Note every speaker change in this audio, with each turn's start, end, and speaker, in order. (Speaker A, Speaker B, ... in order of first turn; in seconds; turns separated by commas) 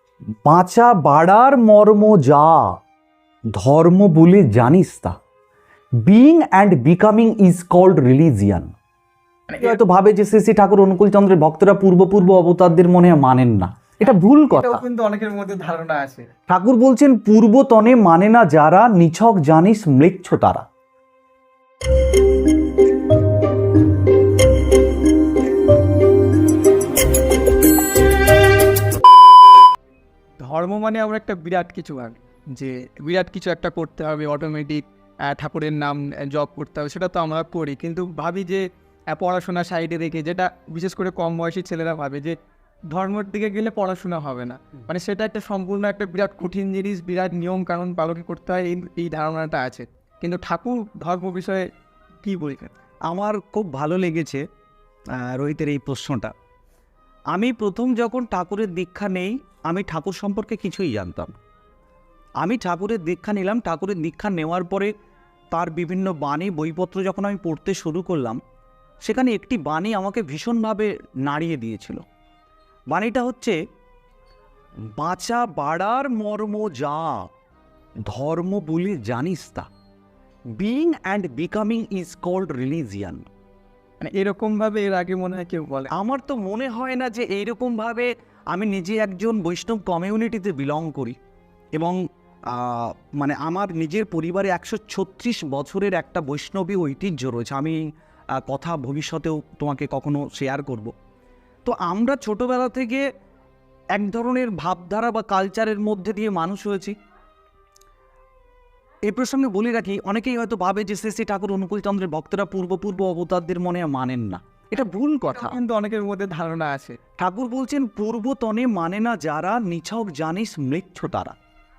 Speaker A: 0.5-2.7, Speaker A: 3.6-5.2, Speaker A: 6.0-8.8, Speaker B: 9.5-9.8, Speaker A: 9.6-14.8, Speaker B: 14.0-16.3, Speaker A: 16.5-20.6, Speaker B: 30.4-42.4, Speaker B: 42.9-51.7, Speaker B: 52.2-52.7, Speaker A: 53.1-54.4, Speaker A: 55.2-56.3, Speaker A: 57.3-61.4, Speaker A: 62.4-64.9, Speaker A: 65.5-68.4, Speaker A: 69.0-72.0, Speaker A: 72.9-73.6, Speaker A: 74.9-77.2, Speaker A: 78.1-79.7, Speaker A: 80.6-83.3, Speaker B: 84.0-85.9, Speaker A: 85.9-91.2, Speaker A: 92.5-97.8, Speaker A: 98.4-100.9, Speaker A: 101.7-103.0, Speaker A: 104.0-107.0, Speaker A: 109.1-115.6, Speaker B: 115.3-117.0, Speaker A: 117.2-121.3